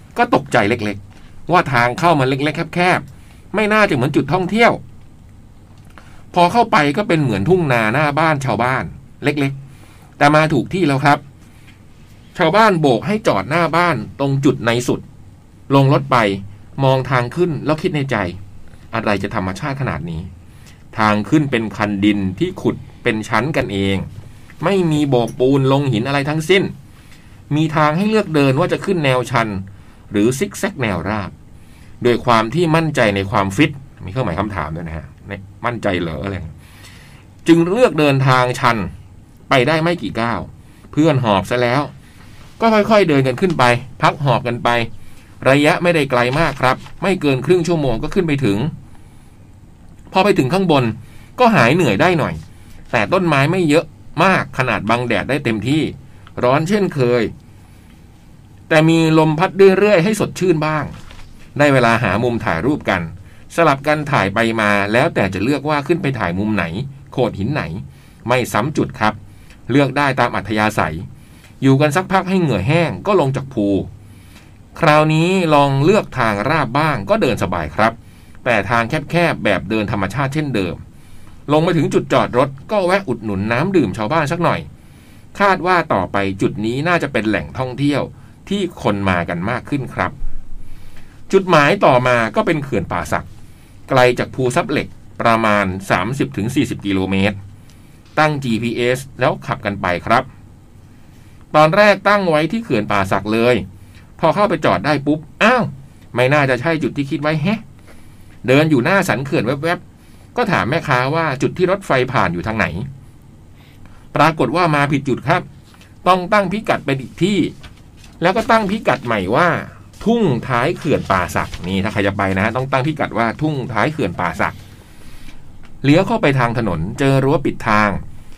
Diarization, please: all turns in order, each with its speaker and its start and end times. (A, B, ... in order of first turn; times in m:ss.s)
0:00.2-0:04.8 A
0:06.3-0:09.6 A
0:10.2-0:11.2 A
0:12.4-0:15.0 A
0:15.7-0:18.4 A
0:18.9-0:20.3 A
0:20.9-0:24.1 A
0:24.6-0:26.7 A
0:27.5-0:31.3 A
0:32.0-0:36.5 A
0:37.4-0:38.9 A
0:39.5-0:41.9 A
0:42.6-0:44.9 A
0:45.4-0:48.7 A
0:50.1-0:52.4 A
0:52.9-0:57.3 A
0:58.7-1:00.9 A
1:01.6-1:09.2 A
1:09.7-1:11.1 A
1:11.6-1:13.9 A
1:14.8-1:20.8 A
1:21.5-1:24.7 A
1:25.3-1:30.2 A
1:31.3-1:33.3 A
1:33.9-1:37.4 A
1:38.2-1:40.3 A
1:41.5-1:43.6 A
1:44.2-1:47.6 A
1:48.4-1:49.8 A
1:50.4-1:52.9 A
1:54.1-1:55.5 A
1:56.0-1:57.5 A
1:58.2-2:04.6 A
2:05.8-2:08.0 A